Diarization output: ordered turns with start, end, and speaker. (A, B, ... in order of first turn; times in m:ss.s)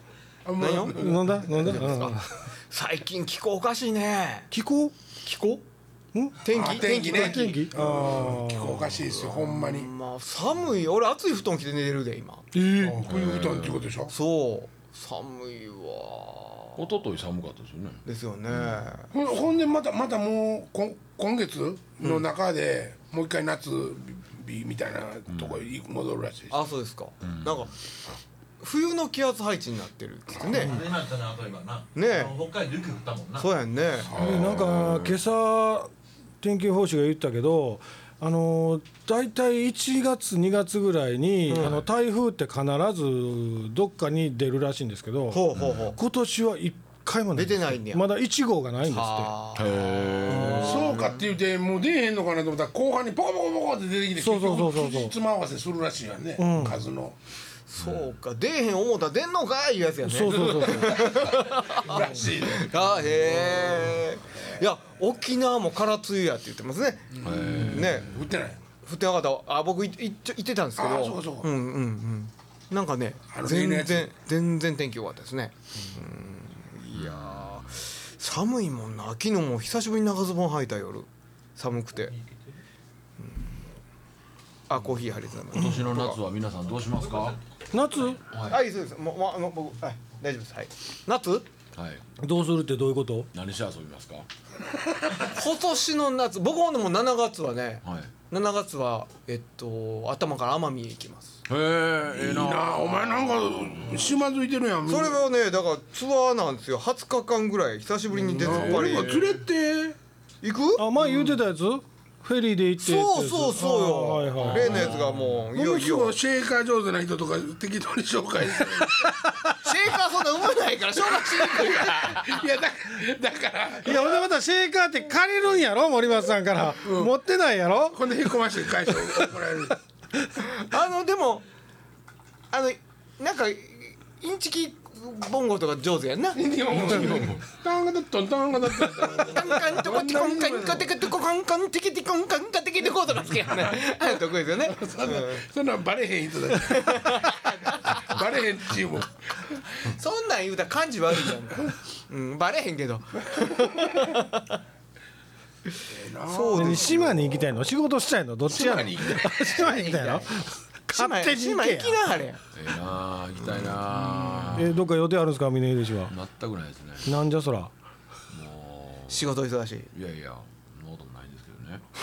0:00.4-0:01.7 A
0:00.6-0:04.5 B
0:00.9-0:02.3 C
0:04.5-0:04.9 C
0:05.2-0:05.6 B
0:06.1-0:08.9 C
0:06.4-0:07.7 B
0:06.5-0:09.9 A
0:09.1-0:12.5 B
0:12.5-0:13.1 C
0:12.8-0:14.1 A
0:13.0-0:13.8 D
0:14.1-0:16.8 B
0:16.8-0:18.0 D
0:18.0-0:19.1 B
0:18.5-0:18.8 D
0:19.1-0:26.6 A
0:25.3-0:25.6 D
0:26.5-0:27.7 B
0:27.2-0:27.6 D
0:28.6-0:30.8 B
0:30.4-0:30.7 A
0:30.5-0:33.5 E
0:31.9-0:32.4 B
0:33.4-0:34.1 B
0:34.0-0:34.7 A
0:34.1-0:49.3 C
0:34.2-0:35.1 D
0:41.5-0:41.8 B
0:45.3-0:46.0 B
0:47.3-0:48.1 B
0:48.8-0:51.2 B
0:49.6-0:50.9 D
0:50.3-0:50.7 C
0:50.5-0:57.2 A
0:54.2-0:55.2 C
0:56.4-0:56.8 C
0:57.7-1:08.1 B
0:57.8-0:58.1 D
1:00.0-1:01.2 C
1:00.9-1:04.0 A
1:07.1-1:08.6 A
1:07.2-1:08.2 D
1:08.8-1:22.1 B
1:10.8-1:11.5 A
1:13.3-1:14.1 A
1:16.9-1:17.8 D
1:24.7-1:26.2 B
1:25.5-1:27.4 D
1:27.7-1:28.2 C
1:28.3-1:28.6 D
1:28.5-1:31.4 B
1:31.8-1:32.0 D
1:32.2-1:33.3 C
1:33.3-1:34.3 D
1:35.2-1:41.4 B
1:37.8-1:38.1 D
1:41.5-1:44.1 D
1:42.1-1:45.2 A
1:44.9-1:49.2 B
1:48.3-1:49.4 D
1:48.3-1:50.0 A
1:50.4-1:51.2 B
1:50.8-1:55.0 C
1:52.8-1:56.2 B
1:54.4-1:55.2 D
1:55.5-1:59.1 A
1:58.8-1:59.5 C
1:59.6-2:02.4 B
2:01.1-2:04.2 A
2:03.8-2:08.2 C
2:06.8-2:07.1 A
2:07.9-2:09.8 A
2:08.9-2:09.1 C
2:10.4-2:11.4 B
2:12.5-2:17.3 B
2:16.3-2:21.0 A
2:17.0-2:17.4 D
2:19.2-2:25.4 B
2:23.6-2:29.6 A
2:26.7-2:28.0 B
2:29.8-2:34.6 B
2:35.9-2:37.6 A
2:36.3-2:37.0 B
2:36.4-2:42.0 C
2:38.5-2:39.8 A
2:39.5-2:40.3 B
2:40.9-2:42.4 B
2:42.5-2:44.7 D
2:44.5-2:46.1 C
2:46.1-2:47.1 D
2:47.0-2:47.7 C
2:48.3-2:49.3 D
2:49.1-2:49.9 B
2:49.9-2:51.8 D